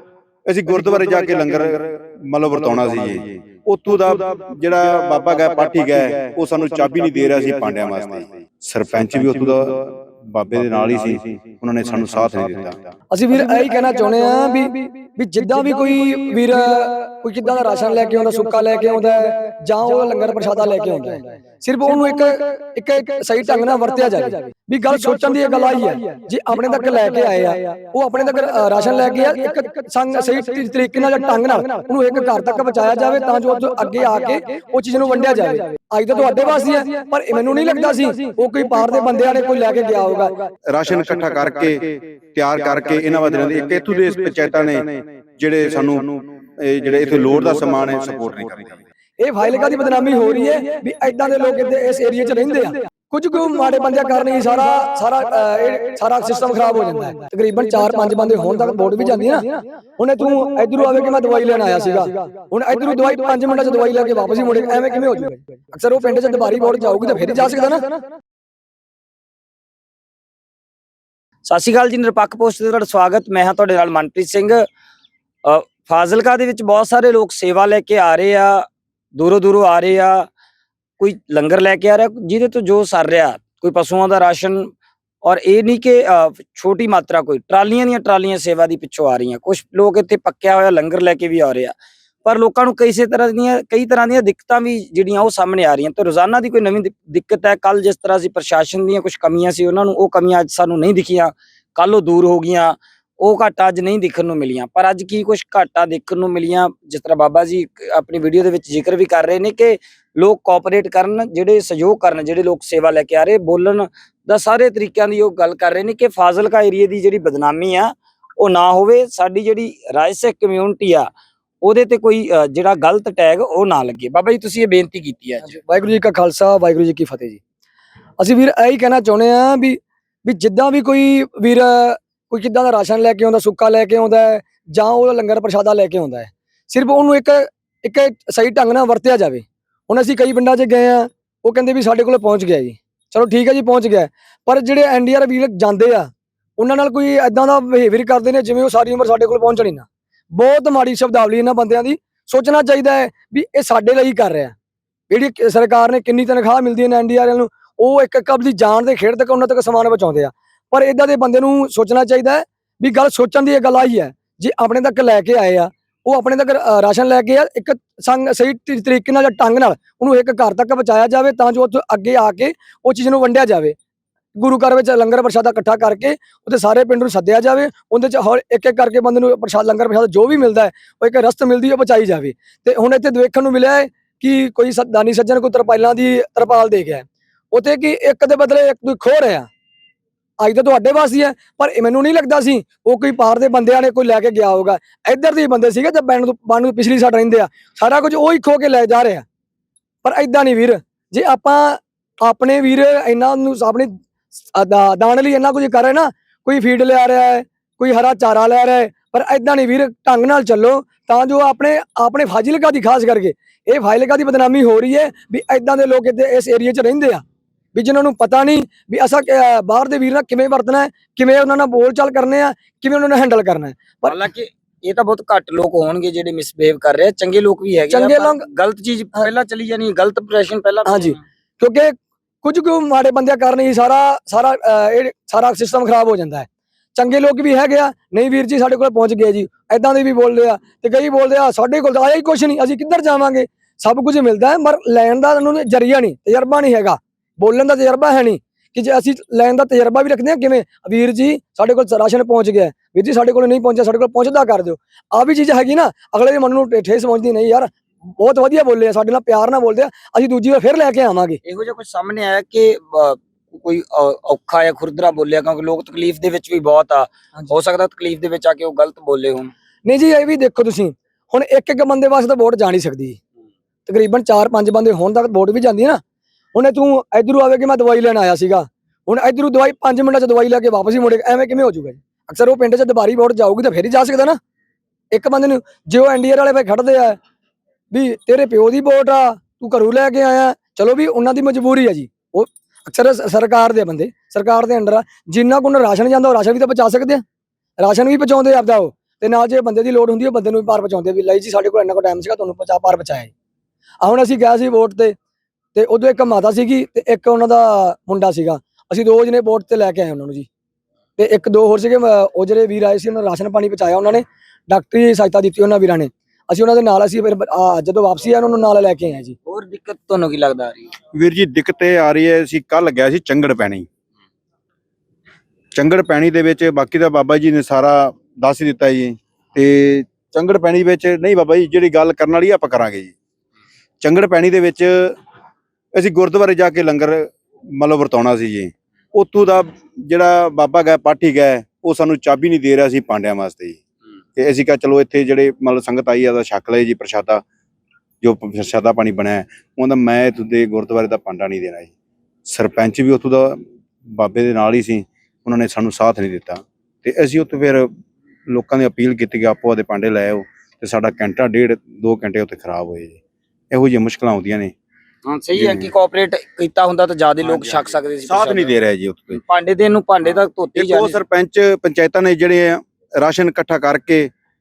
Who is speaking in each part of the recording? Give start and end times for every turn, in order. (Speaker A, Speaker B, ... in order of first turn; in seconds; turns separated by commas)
Speaker A: 0.5-12.9, Speaker B: 13.1-40.5, Speaker A: 40.7-48.8, Speaker B: 49.2-67.8, Speaker C: 71.4-74.7, Speaker C: 75.4-80.3, Speaker C: 81.0-84.7, Speaker C: 85.2-121.1, Speaker C: 121.6-125.4, Speaker B: 125.4-127.4, Speaker B: 128.2-154.5, Speaker B: 155.1-173.8, Speaker B: 174.4-189.5, Speaker B: 190.4-199.2, Speaker B: 200.0-204.0, Speaker B: 204.5-224.2, Speaker C: 224.0-231.2, Speaker B: 227.9-228.5, Speaker B: 230.8-261.4, Speaker C: 261.4-269.5, Speaker B: 269.8-273.2, Speaker B: 273.9-276.0, Speaker B: 276.5-284.4, Speaker B: 285.1-287.2, Speaker B: 287.9-297.2, Speaker B: 297.8-303.3, Speaker B: 304.0-305.1, Speaker B: 305.8-310.5, Speaker B: 311.2-319.3, Speaker C: 319.4-320.9, Speaker A: 321.1-323.9, Speaker A: 325.7-333.1, Speaker A: 334.0-335.1, Speaker A: 335.9-343.8, Speaker A: 344.4-347.4, Speaker A: 348.2-351.9, Speaker A: 352.4-357.9, Speaker A: 358.5-363.2, Speaker A: 363.7-364.7, Speaker C: 365.2-368.7, Speaker A: 365.6-365.9, Speaker A: 367.4-369.4, Speaker C: 369.3-371.2, Speaker A: 370.8-374.3